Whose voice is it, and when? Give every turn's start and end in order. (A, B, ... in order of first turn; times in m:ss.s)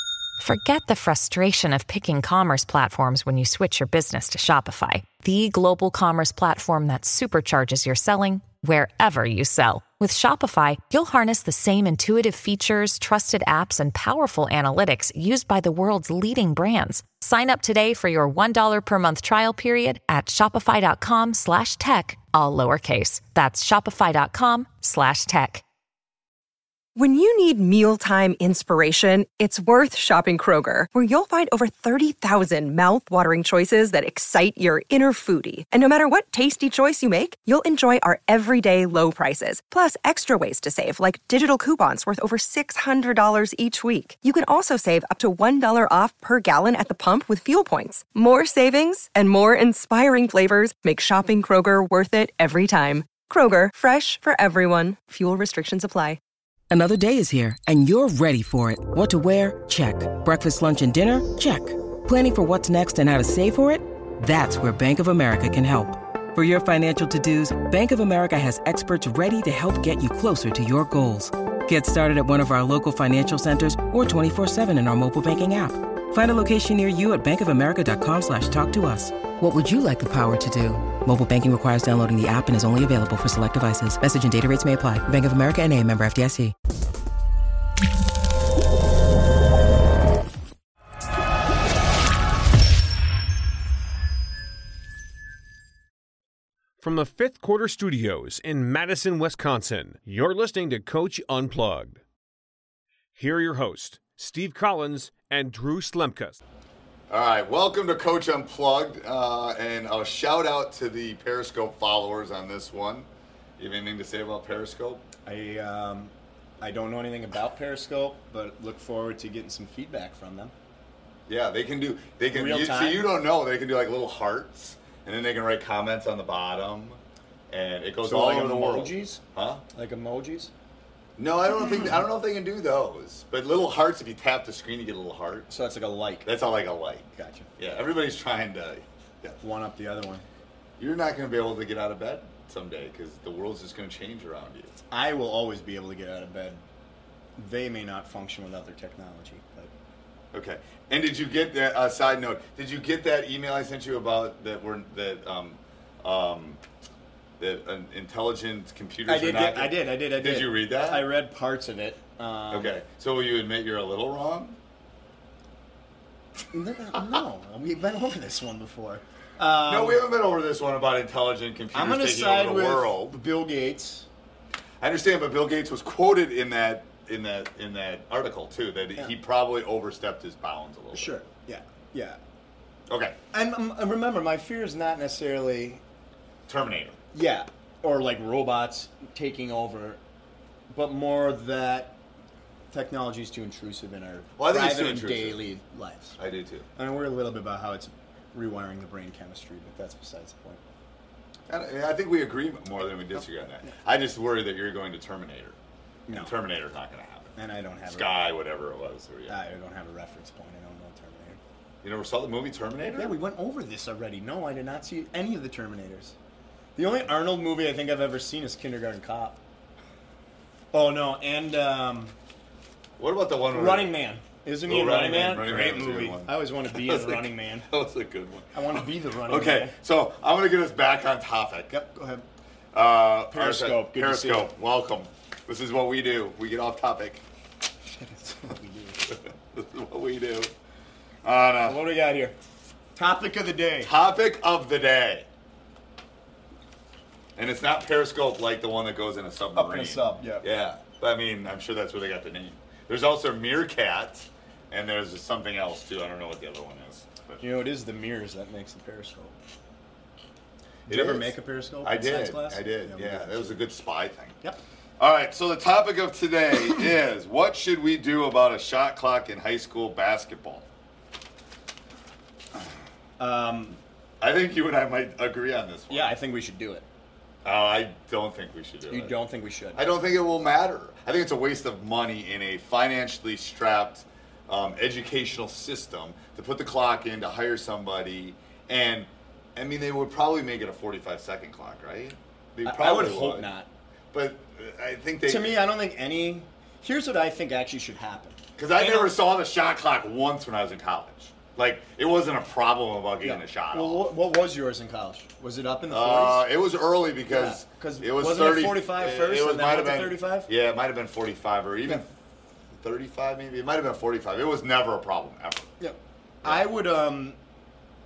0:00.4-0:25.6 A
0:27.0-0:56.2 B
0:56.7-1:26.5 C
1:36.8-1:42.0 D
1:43.2-1:46.4 D
1:47.1-1:55.0 E
1:55.2-2:00.5 F
2:01.3-2:07.0 E
2:02.3-2:03.1 F
2:07.5-2:09.6 E
2:08.0-2:09.2 F
2:09.7-2:10.5 F
2:11.2-2:15.5 E
2:15.5-2:16.3 F
2:16.2-2:17.1 E
2:17.1-2:17.5 F
2:17.6-2:19.4 E
2:19.4-2:20.2 F
2:20.8-2:24.8 E
2:24.9-2:26.6 F
2:27.4-2:29.7 F
2:30.3-2:36.6 E
2:37.4-2:41.1 E
2:39.0-2:42.7 F
2:42.5-2:44.6 E
2:46.5-2:50.0 F
2:49.7-2:53.2 E
2:51.7-2:54.1 F
2:54.8-3:01.2 E
3:00.9-3:02.2 F
3:02.9-3:03.2 E
3:03.3-3:05.8 F
3:06.5-3:07.0 E
3:07.1-3:10.0 F
3:10.7-3:12.0 F
3:12.7-3:16.2 F
3:14.4-3:15.4 E
3:16.2-3:16.7 E
3:16.8-3:20.6 F
3:21.5-3:25.6 E
3:26.1-3:26.3 F
3:26.1-3:27.3 E
3:27.4-3:28.2 F
3:27.8-3:29.4 E
3:29.3-3:31.4 F
3:31.8-3:33.2 E
3:32.9-3:36.1 F
3:36.8-3:39.4 F
3:40.7-3:42.1 F
3:43.0-3:44.0 E
3:43.5-3:47.7 F
3:44.7-3:51.7 E
3:48.5-3:49.7 F
3:51.7-3:52.2 F
3:52.7-3:57.2 E
3:53.3-3:54.5 F
3:57.9-3:59.2 F
3:59.1-4:00.5 E
4:01.2-4:01.8 E
4:01.6-4:02.4 F
4:02.9-4:03.9 F
4:03.8-4:05.3 E
4:07.4-4:17.4 E
4:09.5-4:10.5 F
4:17.4-4:19.3 F
4:20.9-4:23.7 F
4:20.9-4:24.4 E
4:25.0-4:30.6 E
4:33.2-4:33.8 F
4:34.2-4:36.1 E
4:35.9-4:36.8 F
4:37.4-4:39.1 E
4:38.9-4:39.9 F
4:39.7-4:53.5 E
4:52.6-4:53.7 F
4:54.1-4:55.6 E
4:55.2-4:59.2 F
4:58.6-5:04.1 E
5:03.2-5:06.5 F
5:05.9-5:12.1 E
5:07.2-5:10.5 F
5:12.8-5:15.7 E
5:15.8-5:17.4 F
5:16.4-5:16.7 E